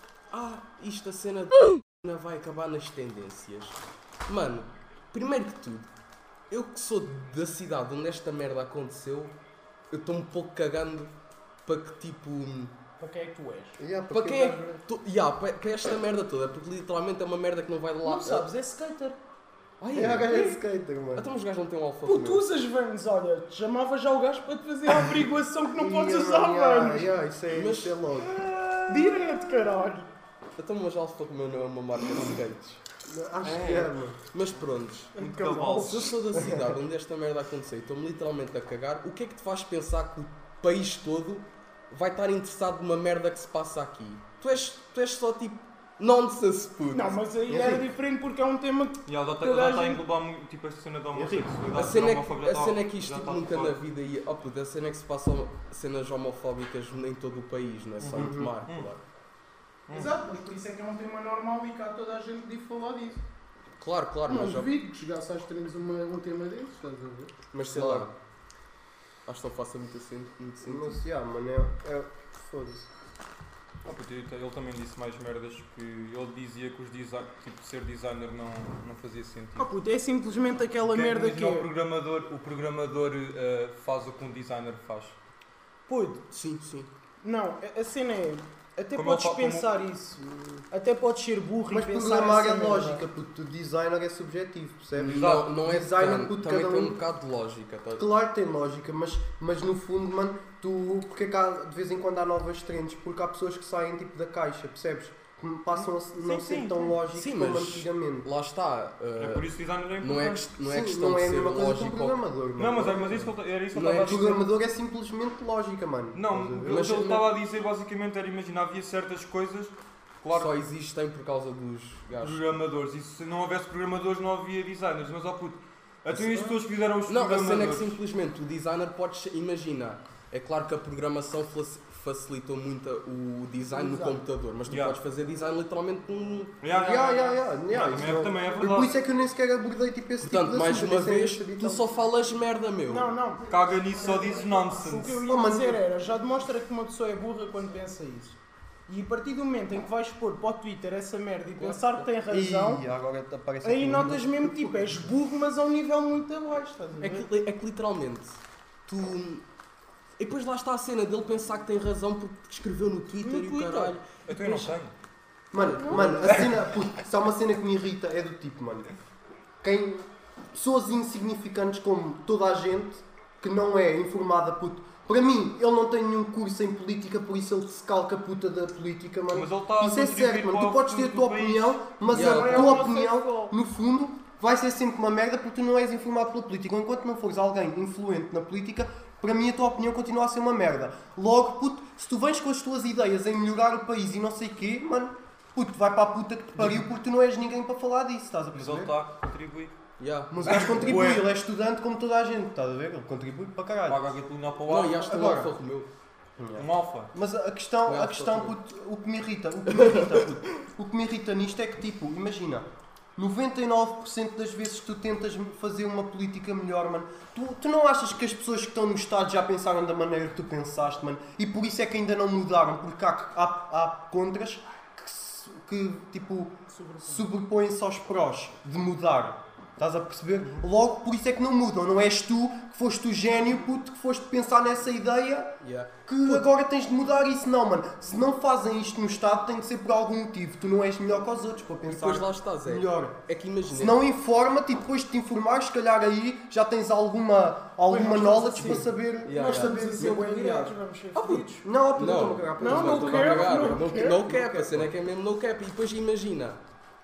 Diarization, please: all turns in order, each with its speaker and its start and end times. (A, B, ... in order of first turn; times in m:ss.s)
0:00.3-0:05.9 A
0:06.5-0:09.3 A
0:09.9-0:11.1 A
0:11.7-0:12.8 A
0:13.0-0:13.8 B
0:13.8-0:14.8 C
0:14.1-0:18.5 A
0:18.0-0:19.2 B
0:19.8-0:22.4 A
0:19.9-0:21.3 C
0:22.0-0:27.1 B
0:25.7-0:29.1 C
0:27.5-0:28.0 A
0:28.9-0:30.1 B
0:30.6-0:32.8 A
0:33.0-0:34.2 C
0:33.4-0:33.9 D
0:34.3-0:47.2 A
0:35.2-0:36.2 B
0:35.2-0:36.1 D
0:46.9-0:50.0 B
0:47.5-0:47.9 C
0:49.1-0:53.8 D
0:51.1-0:51.5 C
0:51.7-0:59.0 A
0:58.0-0:58.9 D
0:58.1-0:58.5 C
0:59.9-1:00.1 D
0:59.9-1:03.2 B
1:03.8-1:04.8 A
1:04.3-1:07.3 B
1:07.5-1:08.1 A
1:07.5-1:08.1 C
1:09.3-1:11.0 A
1:10.6-1:12.9 C
1:13.8-1:19.7 D
1:19.6-1:21.7 B
1:20.8-1:25.2 D
1:25.9-1:26.2 B
1:26.3-1:26.9 A
1:27.2-1:33.0 B
1:29.0-1:29.7 D
1:31.7-1:37.0 C
1:35.0-1:38.1 A
1:35.1-1:35.5 D
1:38.0-1:48.3 C
1:46.2-1:46.9 D
1:47.1-1:52.2 A
1:49.2-1:50.5 D
1:50.6-1:53.3 C
1:52.6-1:54.4 D
1:53.7-1:54.4 A
1:54.0-1:57.0 C
1:56.1-2:00.5 D
1:56.6-1:57.4 A
2:00.3-2:02.4 A
2:02.2-2:08.0 D
2:07.1-2:16.6 A
2:13.7-2:14.2 B
2:14.7-2:15.0 D
2:16.6-2:18.9 D
2:16.7-2:21.9 C
2:20.2-2:23.1 A
2:22.9-2:23.4 B
2:23.5-2:25.2 D
2:24.4-2:32.8 B
2:25.2-2:25.8 C
2:31.6-2:32.1 A
2:32.3-2:35.0 C
2:33.6-2:37.3 B
2:37.0-2:39.4 A
2:40.2-2:44.7 A
2:43.2-2:44.6 B
2:44.3-2:44.9 D
2:45.5-2:48.9 C
2:45.6-2:46.5 A
2:45.8-2:46.2 B
2:49.6-3:18.9 C
2:59.3-3:01.8 D
3:02.1-3:03.5 B
3:02.1-3:02.9 A
3:18.5-3:19.8 D
3:20.0-3:21.1 A
3:20.3-3:24.1 C
3:20.4-3:21.3 D
3:23.9-3:25.2 D
3:24.7-3:25.9 A
3:25.1-3:25.5 C
3:26.4-4:03.2 C
3:26.6-3:27.1 D
3:27.9-3:28.5 A
3:29.7-3:30.3 A
3:46.7-3:47.3 B
3:55.6-3:56.5 A
4:01.9-4:04.0 A
4:03.7-4:10.7 C
4:07.9-4:11.6 B
4:08.6-4:16.6 A
4:11.6-4:14.9 C
4:12.6-4:14.3 B